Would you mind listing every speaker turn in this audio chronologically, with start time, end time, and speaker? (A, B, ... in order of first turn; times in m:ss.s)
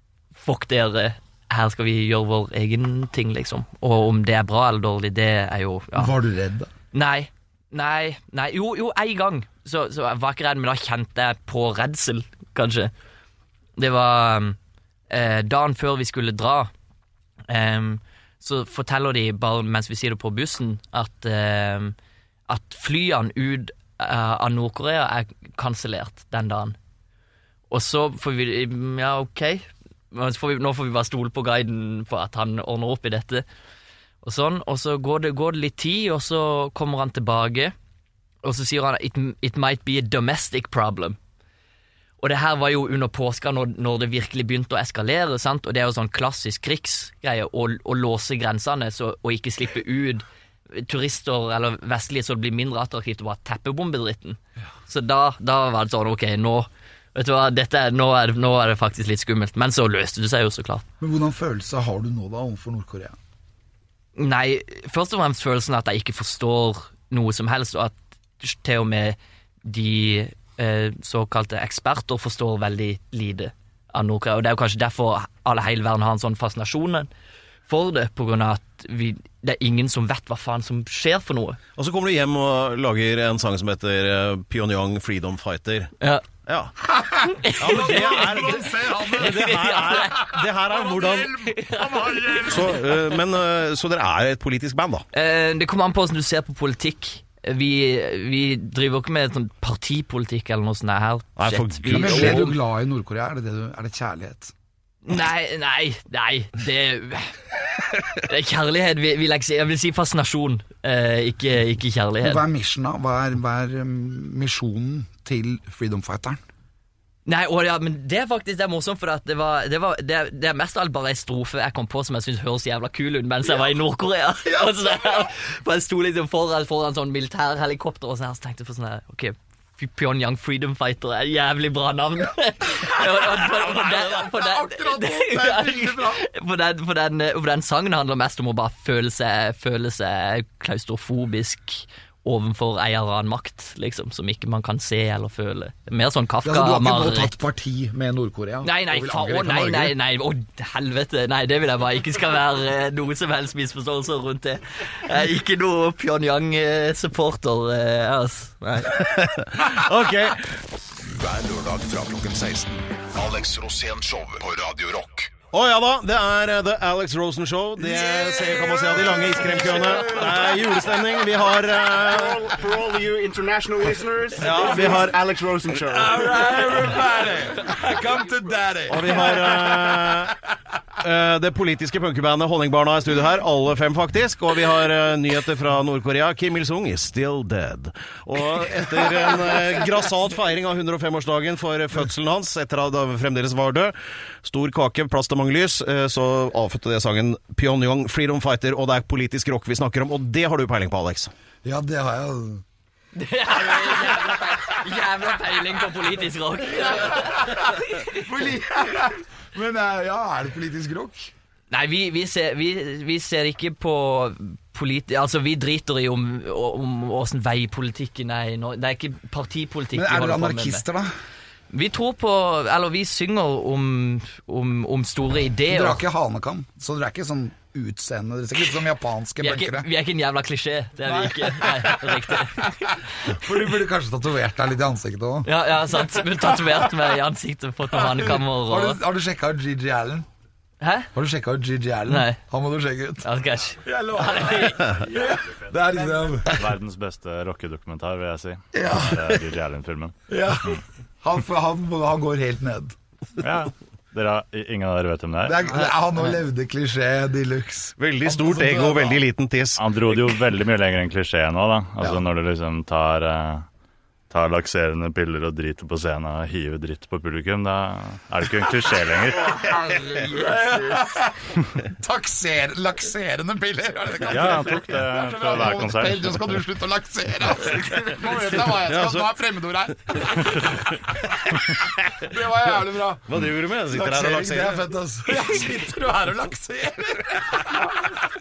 0:00.4-0:06.1 A
0:05.9-0:06.7 B
0:06.9-0:12.9 A
0:13.8-0:14.6 A
0:15.1-0:16.7 A
0:17.5-0:21.9 A
0:22.5-0:26.8 A
0:27.7-0:33.4 A
0:34.2-0:37.7 A
0:38.4-0:41.2 A
0:42.2-1:00.8 A
1:01.0-1:03.2 B
1:04.2-1:17.1 A
1:17.7-1:21.6 A
1:21.8-1:25.9 C
1:26.4-1:26.8 C
1:26.8-1:29.6 B
1:27.4-1:28.6 A
1:27.6-1:31.4 C
1:29.1-1:30.3 A
1:30.2-1:33.0 B
1:31.4-1:32.5 A
1:32.5-1:35.0 C
1:35.1-1:42.5 A
1:41.4-1:42.5 C
1:41.9-1:44.5 B
1:45.0-1:47.3 A
1:48.1-1:52.4 A
1:52.2-1:56.4 B
1:57.2-2:27.3 A
2:04.4-2:05.2 B
2:12.8-2:16.3 B
2:26.4-2:30.0 B
2:28.6-2:39.0 A
2:38.9-2:40.5 C
2:41.1-2:45.3 D
2:42.2-2:42.8 B
2:45.5-2:52.6 C
2:47.8-2:50.9 B
2:51.9-2:56.5 E
2:54.4-2:55.2 C
2:55.7-3:00.2 B
2:58.9-3:00.4 C
3:01.0-3:21.3 C
3:21.6-3:22.6 B
3:23.1-3:28.2 A
3:23.7-3:24.6 B
3:26.8-3:31.3 B
3:31.7-3:40.8 A
3:39.9-3:41.1 B
3:41.7-3:46.0 A
3:45.7-3:49.9 B
3:49.4-3:53.3 A
3:51.0-3:52.6 B
3:53.2-3:55.5 B
3:55.4-3:59.0 A
3:57.9-4:00.3 B
4:00.8-4:01.1 A
4:01.1-4:03.3 B
4:02.1-4:02.4 A
4:03.2-4:05.0 A
4:03.8-4:06.7 B
4:06.4-4:10.1 F
4:08.7-4:09.4 B
4:10.3-4:13.0 B
4:13.4-4:15.7 F
4:15.4-4:19.2 B
4:18.0-4:20.3 C
4:19.8-4:23.6 F
4:24.3-4:29.7 F
4:30.1-4:41.2 B
4:34.3-4:36.6 F
4:38.7-4:39.3 C
4:42.2-4:43.4 B
4:43.3-4:44.8 C
4:43.9-4:48.1 B